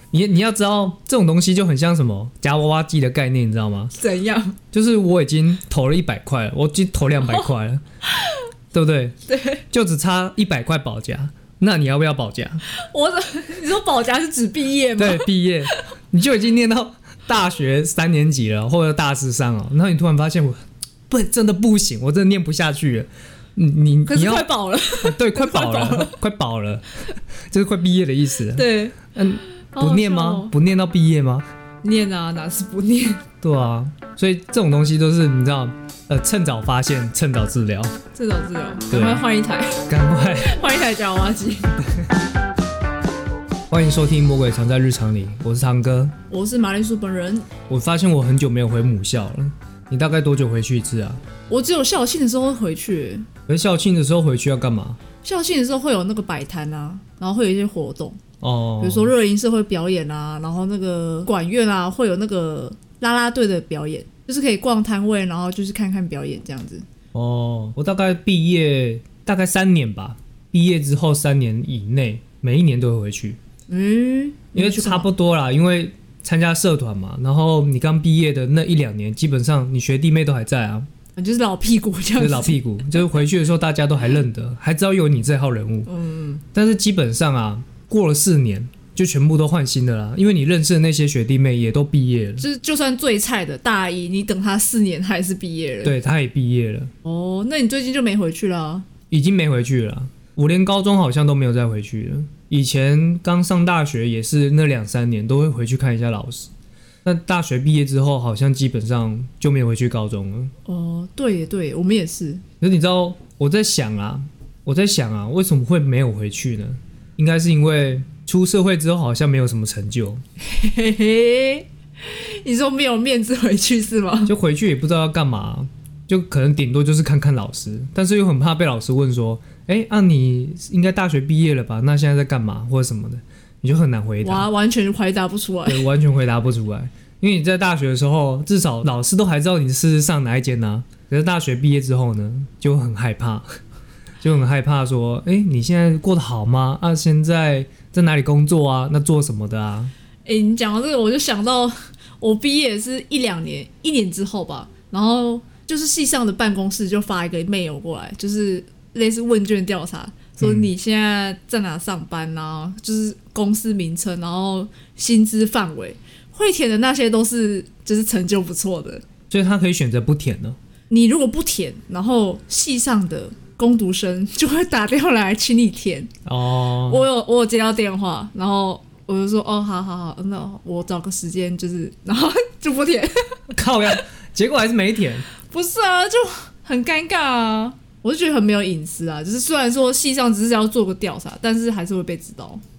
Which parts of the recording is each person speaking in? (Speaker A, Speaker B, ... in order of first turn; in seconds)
Speaker A: 0.1-3.9, 4.7-7.8, 8.7-9.2, 9.7-12.6, 15.0-26.9, 27.5-31.5, 33.4-38.0, 38.9-39.2, 39.9-40.6, 43.7-46.1, 47.7-51.2, 53.5-55.0, 58.4-59.1, 67.1-73.4, 74.5-80.9, 82.2-85.9, 86.5-92.5, 95.8-96.9, 99.1-106.5, 107.0-110.5, 112.6-120.2, 124.3-134.5, 135.7-143.6, 144.2-149.9, 160.4-160.7, 169.3-170.6, 176.3-177.1, 183.5-185.3
Speaker B: 4.0-4.6, 9.3-9.6, 12.7-15.7, 24.1-26.1, 28.5-29.0, 29.7-30.6, 31.8-33.2, 38.1-41.8, 46.3-47.5, 51.5-53.3, 55.2-58.2, 58.8-66.8, 73.7-75.1, 81.2-82.6, 85.9-86.4, 92.4-96.0, 97.0-98.9, 110.7-112.4, 120.4-124.3, 134.2-135.9, 150.3-169.0, 170.9-176.1, 176.9-183.3, 185.5-192.6